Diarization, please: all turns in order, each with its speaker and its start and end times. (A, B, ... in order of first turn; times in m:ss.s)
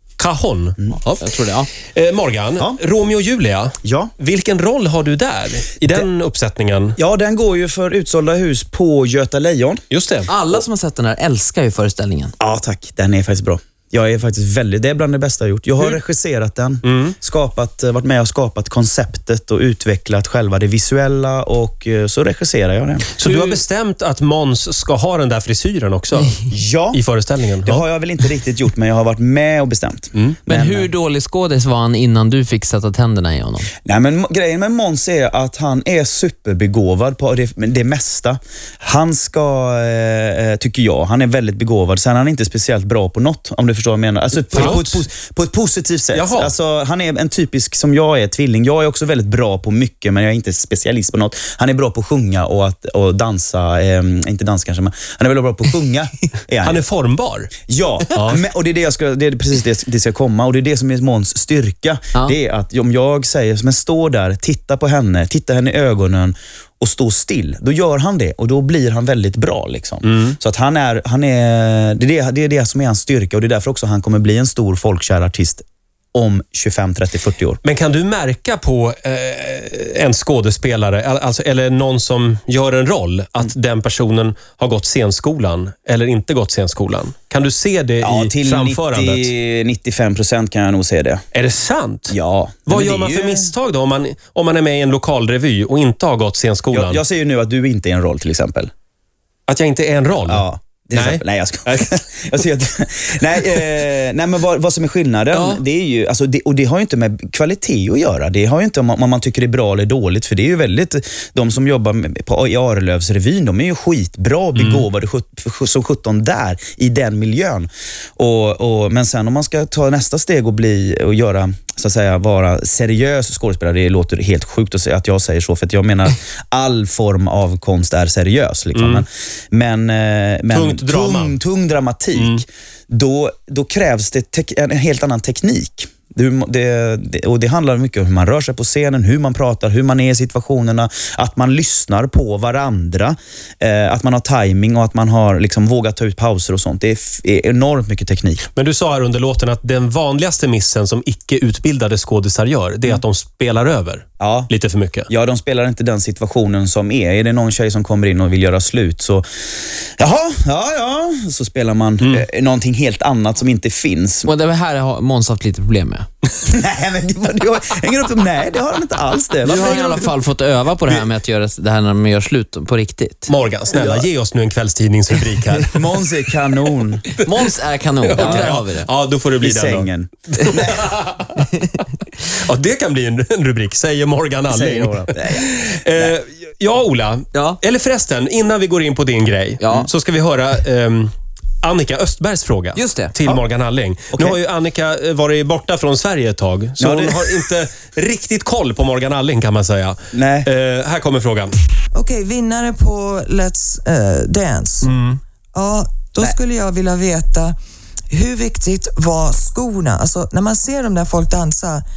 0:00.2-0:01.2 A
0:01.2-0:01.7 B
0:01.9-0:07.0 A
0:03.8-0:04.1 C
0:07.0-0:09.8 C
0:09.9-0:10.3 A
0:10.3-0:12.3 B
0:12.4-0:23.1 C
0:16.8-0:17.1 A
0:23.2-0:26.4 A
0:23.2-0:23.6 B
0:26.5-0:27.0 C
0:26.9-0:27.8 A
0:27.6-0:30.9 C
0:30.5-0:33.7 B
0:33.8-0:56.8 C
0:44.3-0:45.0 A
0:46.1-0:46.5 A
0:56.6-0:57.5 A
0:57.7-1:17.6 C
0:58.1-0:58.4 A
1:10.0-1:10.4 A
1:17.6-1:29.3 A
1:28.0-1:31.2 C
1:31.3-1:37.0 A
1:32.1-1:33.5 C
1:36.7-1:38.7 C
1:39.5-1:41.9 A
1:40.2-2:28.4 C
1:45.3-1:45.6 A
1:54.5-1:54.8 A
2:08.7-2:09.0 A
2:10.5-2:11.4 A
2:12.1-2:12.4 A
2:28.5-2:35.1 A
2:34.2-2:34.5 C
2:35.1-2:39.2 C
2:40.0-2:44.3 C
2:44.2-2:46.1 B
2:46.4-2:50.1 C
2:49.4-2:53.3 B
2:53.3-2:55.7 A
2:53.7-2:54.1 C
2:55.6-2:57.1 C
2:57.2-2:58.9 B
2:58.0-3:21.5 A
2:58.2-2:58.5 C
2:59.4-3:00.9 C
3:04.5-3:06.2 C
3:07.3-3:07.6 B
3:09.6-3:09.9 B
3:12.7-3:13.1 B
3:14.1-3:14.4 C
3:16.8-3:17.4 C
3:20.1-3:20.5 C
3:21.9-3:24.9 D
3:24.8-3:25.2 A
3:25.5-3:27.6 D
3:28.1-3:31.8 D